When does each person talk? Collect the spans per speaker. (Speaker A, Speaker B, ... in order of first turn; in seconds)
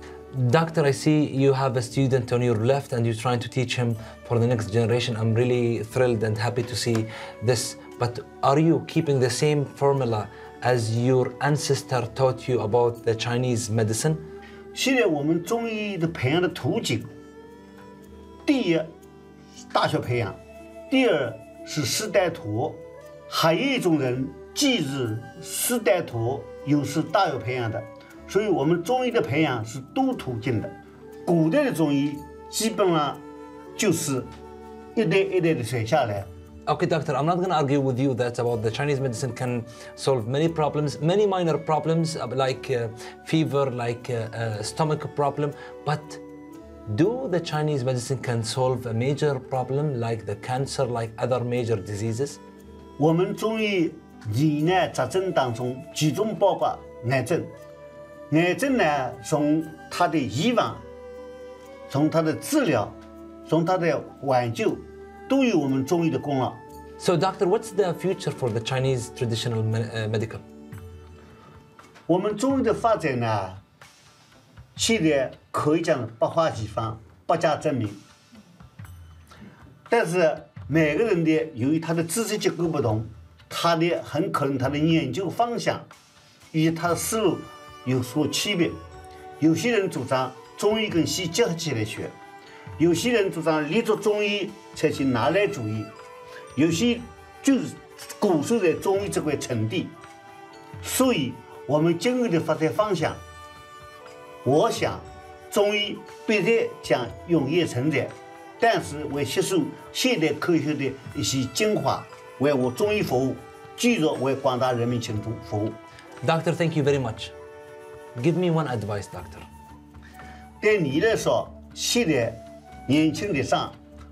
Speaker A: 0.3-14.2, 36.7-46.2, 46.9-52.4, 67.0-70.4, 116.2-117.3, 118.1-119.5
Speaker B: 14.7-17.1, 18.4-18.9, 19.6-20.4, 20.9-30.7, 31.2-33.2, 33.8-34.3, 34.9-36.3, 53.0-57.5, 58.3-60.8, 61.9-66.6, 72.1-73.6, 74.8-78.0, 79.9-85.9, 86.5-88.8, 89.4-92.2, 92.8-95.9, 96.5-99.9, 100.8-103.2, 104.4-115.8, 120.6-123.8